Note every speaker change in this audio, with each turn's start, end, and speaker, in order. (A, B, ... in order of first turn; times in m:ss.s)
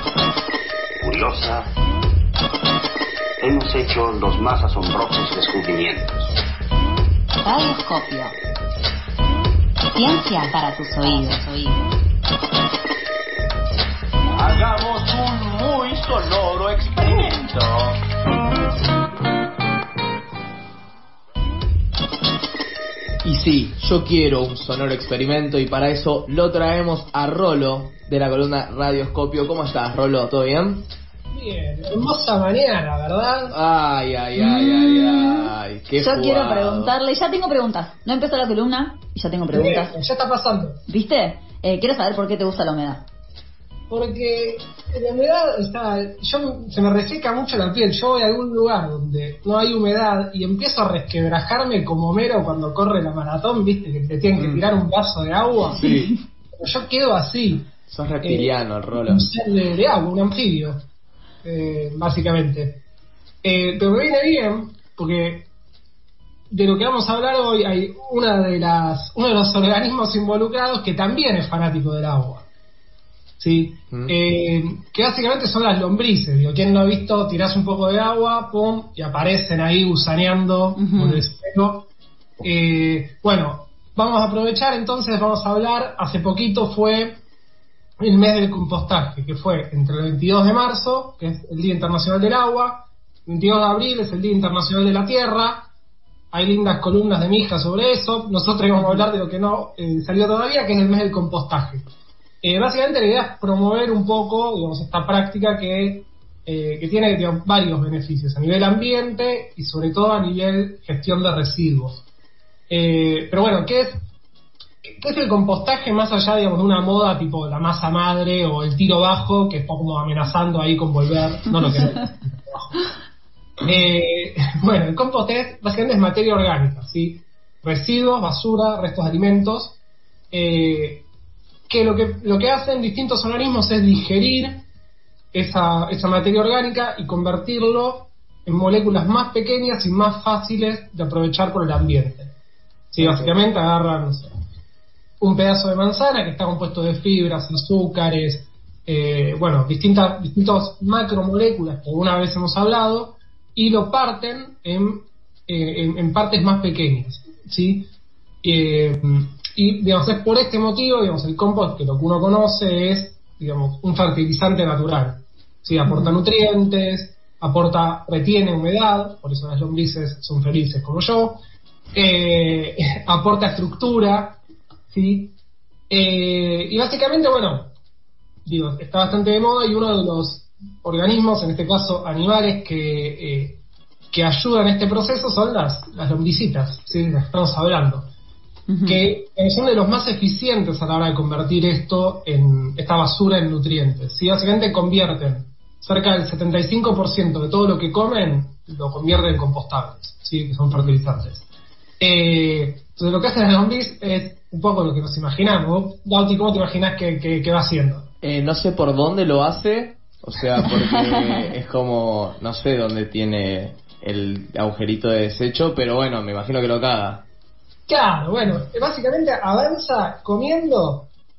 0:01.0-0:01.7 A
0:03.4-0:06.2 A
0:07.4-0:08.4 B
0:10.0-0:11.8 B
0:10.0-0:10.3 A
0:11.0-0:11.7 A
0:14.4-0:18.0 C
0:23.2-0:30.8 D
0:31.3-0:33.6 E
0:33.5-0:36.9 D
0:34.4-0:39.9 F
0:39.5-0:40.8 E
0:40.9-0:43.0 F
0:43.9-0:55.8 E
0:54.4-0:54.7 D
0:55.7-0:56.1 D
0:55.8-0:56.1 F
0:56.6-0:57.7 E
0:57.9-0:59.2 D
0:58.2-0:58.5 E
0:59.0-1:00.8 E
1:01.4-1:02.7 E
1:03.4-1:05.4 E
1:06.5-1:12.4 E
1:13.4-1:21.8 E
1:20.8-1:21.2 F
1:22.4-1:27.2 E
1:28.0-1:35.6 E
1:36.3-1:41.8 E
1:38.8-1:39.0 F
1:42.4-1:52.0 E
1:52.7-1:53.9 E
1:54.8-2:02.7 E
2:03.6-2:09.8 E
2:10.3-2:11.0 E
2:11.7-2:14.6 E
2:15.3-2:22.3 E
2:22.9-2:24.3 E
2:23.0-2:23.4 D
2:25.2-2:37.8 E
2:38.4-2:51.4 E
2:45.9-2:46.2 F
2:51.9-2:54.4 E
2:54.9-2:55.3 E
2:55.9-2:57.7 E
2:58.4-3:03.5 E
3:04.1-3:08.1 E
3:08.7-3:09.0 F
3:08.9-3:21.4 E
3:20.7-3:21.0 D
3:22.0-3:28.0 E
3:28.2-3:37.2 D
3:30.7-3:31.5 F
3:37.9-3:41.0 E